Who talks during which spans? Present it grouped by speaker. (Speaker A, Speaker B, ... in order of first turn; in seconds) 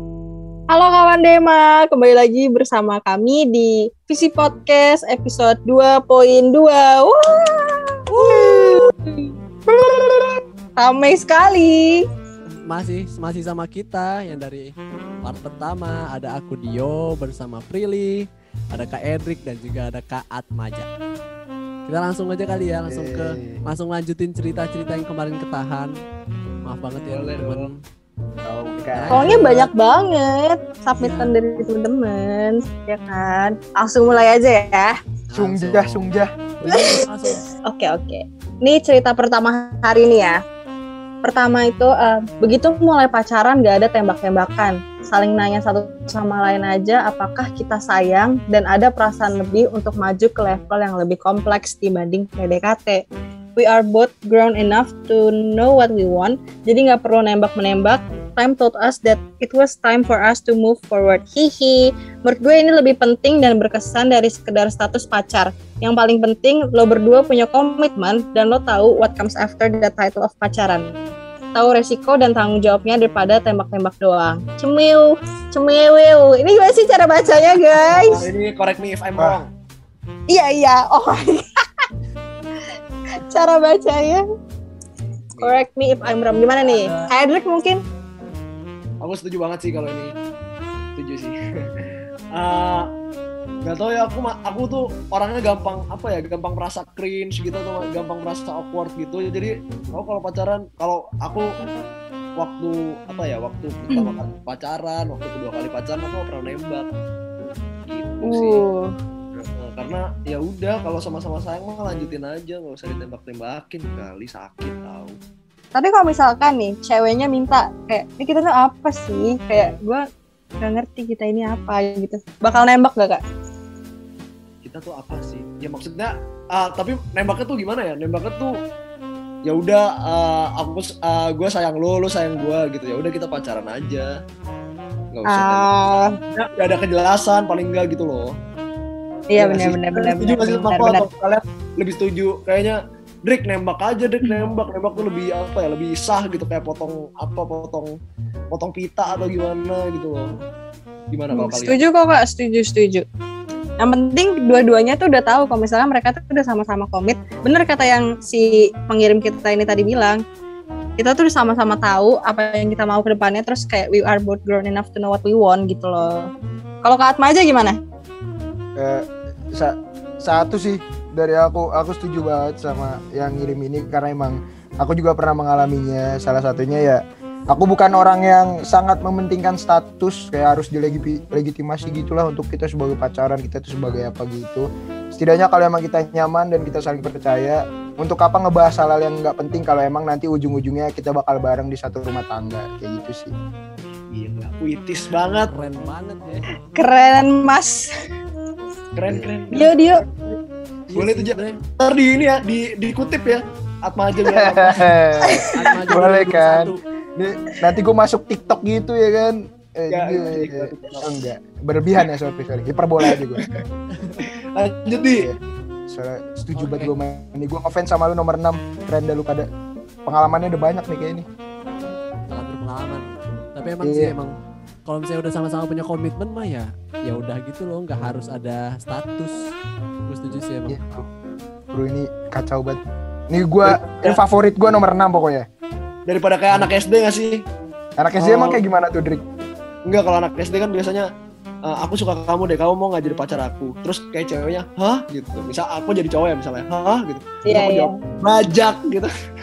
Speaker A: 0.7-12.0, 29.1-35.0, 36.7-40.4, 41.2-53.0, 53.5-70.9, 71.5-78.3, 80.3-81.6, 83.2-84.2, 85.4-87.8, 103.9-104.2, 108.2-108.9, 115.7-120.0, 120.6-123.2, 135.2-136.2, 139.3-141.1, 151.3-153.1, 153.8-160.2, 161.0-166.3, 166.8-167.8, 196.8-197.9, 199.5-200.0, 205.2-205.5, 247.4-247.9
Speaker B: 8.1-8.8, 12.7-14.7, 15.2-20.9, 21.9-25.9, 26.6-27.8, 28.9-29.7, 31.0-31.3, 35.3-36.0, 36.6-37.4, 195.5-196.5, 200.9-201.6, 205.5-206.8, 213.9-214.2, 216.5-216.9, 222.3-224.3, 224.8-229.4, 230.1-230.8
Speaker C: 22.9-23.6, 28.4-29.4, 35.4-36.3, 168.8-193.3, 204.3-213.4, 215.9-219.5, 220.1-221.3, 223.8-224.1, 230.7-231.1, 231.7-235.4, 238.0-239.2
Speaker D: 27.1-27.6, 77.8-79.5, 85.3-85.6, 86.6-87.0, 89.0-90.1, 91.0-91.7, 92.3-92.9, 93.6-101.5, 102.4-106.9, 107.9-108.6, 109.3-115.2, 124.6-128.5, 129.5-134.1, 135.1-135.7, 136.3-138.3, 139.4-147.9, 148.5-150.3, 151.1-151.8, 194.1-195.5, 198.9-200.4, 200.9-205.0, 209.9-211.1, 213.1-213.6, 214.5-215.3, 233.6-234.2, 236.1-237.4, 238.2-238.6, 239.9-241.1, 241.7-249.1